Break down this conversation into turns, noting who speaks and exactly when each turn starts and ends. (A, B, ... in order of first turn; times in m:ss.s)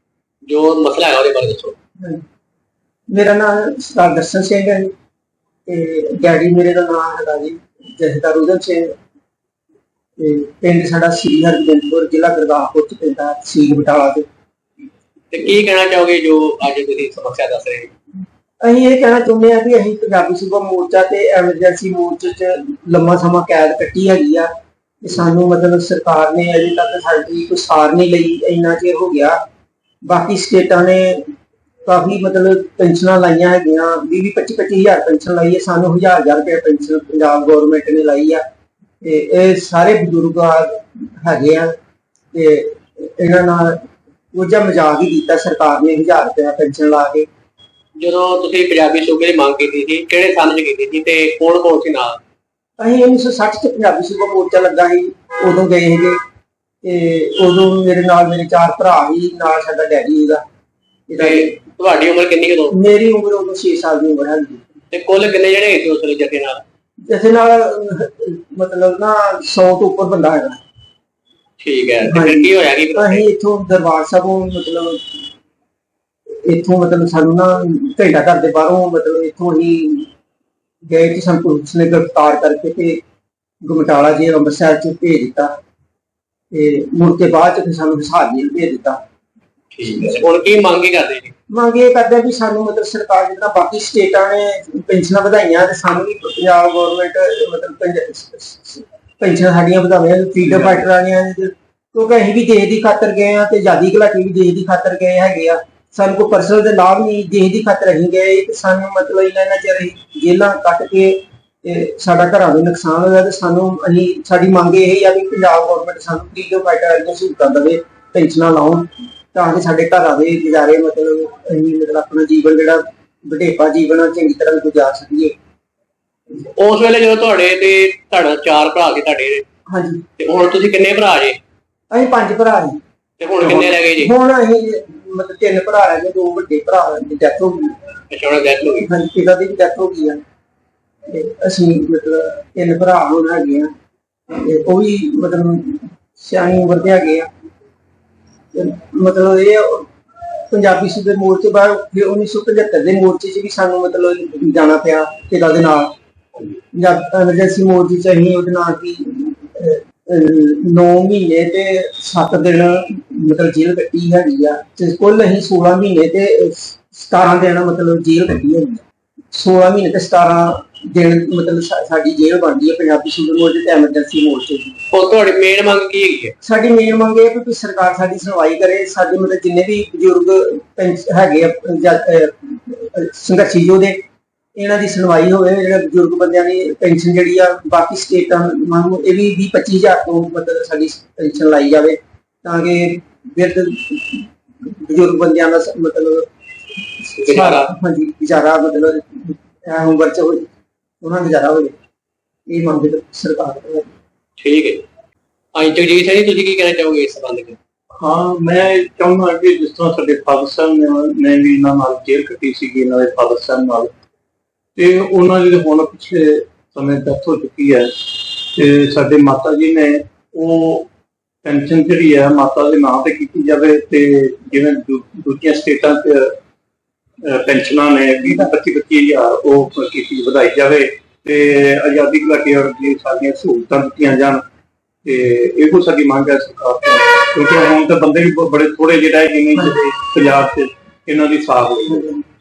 0:00.5-0:01.8 A
0:03.1-0:04.9 B
0:05.7-0:09.0 B
0:10.2-0:14.3 B
0:15.3-0:17.9 A
0:18.6-0:24.5 B
0:25.0-0:29.4 B
0:30.1-0:31.4 B
0:31.9-0:38.4 B
0:39.0-0:41.7 B
0:42.3-0:47.3 B
0:48.0-0:52.2 A
0:52.8-0:56.2 B
0:56.8-1:00.4 B
1:01.1-1:01.6 B
1:01.2-1:02.8 A
1:02.7-1:04.8 B
1:04.9-1:06.6 A
1:07.1-1:10.6 B
1:11.6-1:13.2 A
1:12.0-1:15.3 B
1:16.4-1:20.1 B
1:20.9-1:23.0 B
1:23.6-1:25.5 B
1:26.5-1:29.0 B
1:29.7-1:31.3 A
1:31.5-2:05.4 B
1:40.5-1:40.8 C
2:06.6-2:09.4 A
2:09.7-2:10.0 B
2:10.2-2:11.4 A
2:11.9-2:12.8 B
2:13.2-2:14.1 A
2:13.4-2:17.9 B
2:18.1-2:18.9 A
2:18.8-2:20.2 B
2:21.1-2:23.7 B
2:24.3-2:27.3 B
2:28.5-2:36.0 B
2:36.7-2:54.8 B
2:54.9-2:56.3 A
2:56.4-3:04.0 B
3:04.6-3:16.3 B
3:17.0-3:20.5 B
3:17.2-3:17.7 A
3:21.0-3:21.8 B
3:22.5-3:24.0 B
3:24.4-3:24.8 A
3:25.6-3:27.6 A
3:28.0-3:34.0 C
3:34.8-3:40.9 C
3:41.4-3:46.4 C
3:47.2-3:54.4 C
3:55.0-4:02.2 C